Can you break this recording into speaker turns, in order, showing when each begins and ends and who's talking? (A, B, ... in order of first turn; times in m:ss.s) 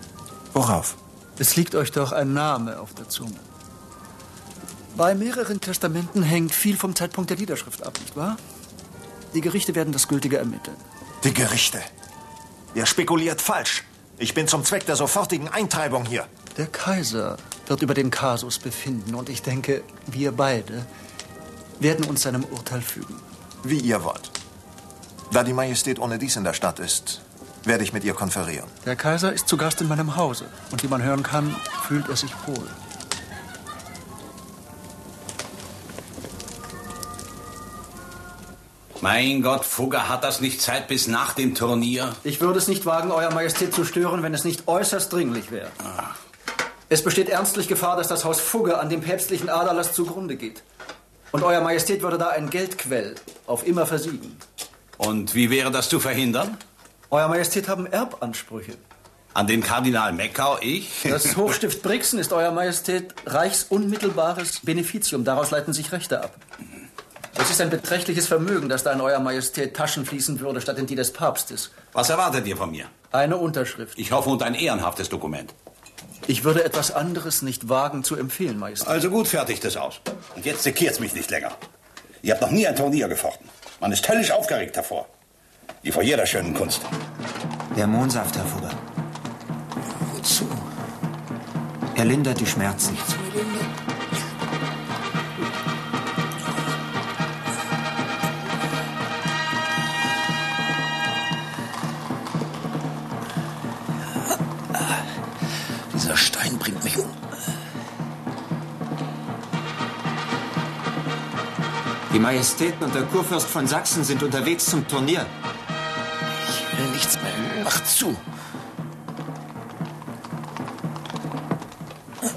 0:00.6-0:00.9 A
0:01.4-0:03.4 B
0:05.0-0:08.4 B
0:09.3-0:10.8 B
0:11.2-0:11.9 A
0:12.7-0:16.3 A
0:16.6-0:20.9 B
0:21.8-0:23.2 B
0:23.6-0:24.3 A
0:25.3-0:28.7 A
0:28.8-0:32.8 B
0:39.0-0:42.2 C
0:42.2-0:45.8 B
0:46.9-0:50.6 B
0:51.3-0:54.4 B
0:55.0-0:56.6 C
0:57.1-0:58.8 B
0:59.4-1:01.3 C
1:01.0-1:06.4 B
1:07.4-1:11.8 B
1:11.9-1:12.9 C
1:13.1-1:14.0 B
1:14.0-1:15.5 C
1:16.3-1:19.1 B
1:18.8-1:21.6 C
1:22.2-1:25.1 C
1:25.8-1:26.9 C
1:27.7-1:28.8 D
1:30.0-1:30.6 E
1:32.0-1:33.2 D
1:45.9-1:47.2 E
1:52.1-1:55.3 D
1:56.5-1:58.2 E